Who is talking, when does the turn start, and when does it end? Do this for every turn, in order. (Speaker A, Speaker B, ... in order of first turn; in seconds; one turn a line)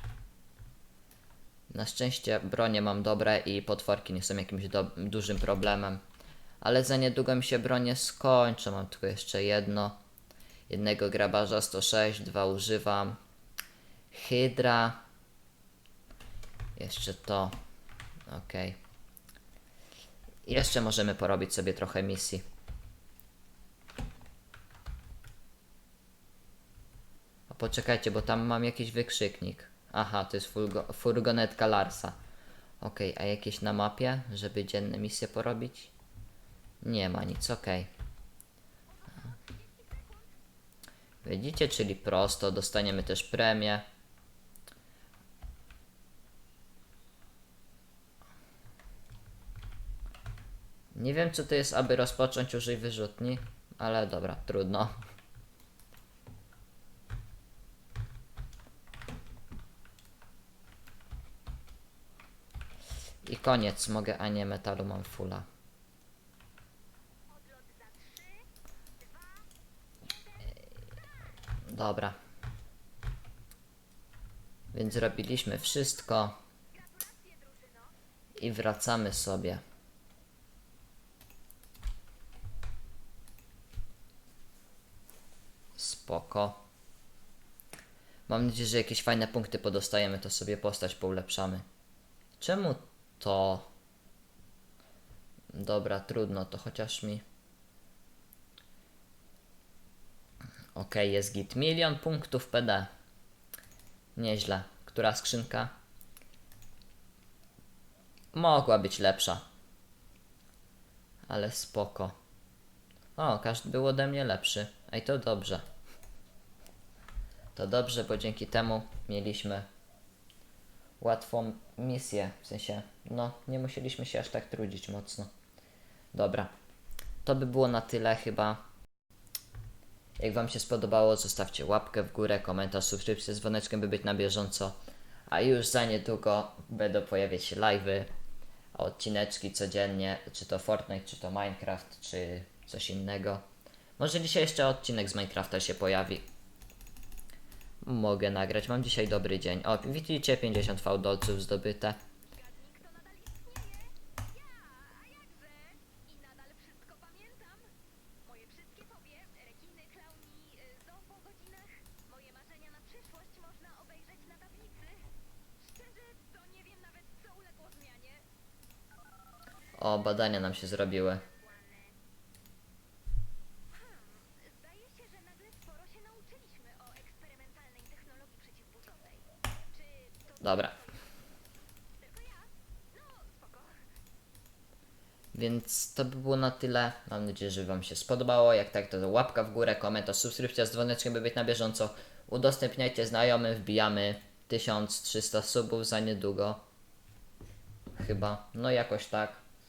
Speaker A: 1.7-6.0
Speaker A: 6.6-10.0
Speaker A: 10.7-13.2
Speaker A: 14.1-15.0
Speaker A: 16.8-17.6
Speaker A: 18.3-18.8
Speaker A: 20.4-22.4
Speaker A: 27.5-32.1
Speaker A: 32.8-35.9
Speaker A: 36.8-37.9
Speaker B: 39.0-40.3
Speaker A: 41.2-43.8
Speaker A: 50.9-54.9
Speaker A: 63.2-65.5
Speaker B: 67.3-68.5
Speaker B: 69.0-69.4
Speaker A: 71.7-72.2
Speaker A: 74.7-76.4
Speaker B: 76.7-77.9
Speaker A: 78.4-79.6
Speaker A: 85.8-86.6
Speaker A: 88.3-91.6
Speaker A: 92.4-93.7
Speaker A: 95.5-97.2
Speaker A: 100.7-102.9
Speaker A: 104.2-105.7
Speaker A: 108.3-109.4
Speaker A: 111.3-112.1
Speaker A: 113.2-115.6
Speaker A: 117.5-119.7
Speaker A: 121.0-125.3
Speaker A: 126.1-126.5
Speaker A: 127.2-128.6
Speaker A: 130.2-134.8
Speaker A: 135.3-138.1
Speaker A: 138.7-143.4
Speaker A: 144.0-146.2
Speaker A: 147.8-152.0
Speaker B: 152.3-157.7
Speaker B: 158.2-165.1
Speaker B: 165.6-168.2
Speaker A: 169.8-171.2
Speaker B: 173.7-179.3
Speaker B: 179.8-181.0
Speaker A: 180.4-180.8
Speaker B: 182.0-183.8
Speaker A: 185.3-196.6
Speaker A: 198.0-199.4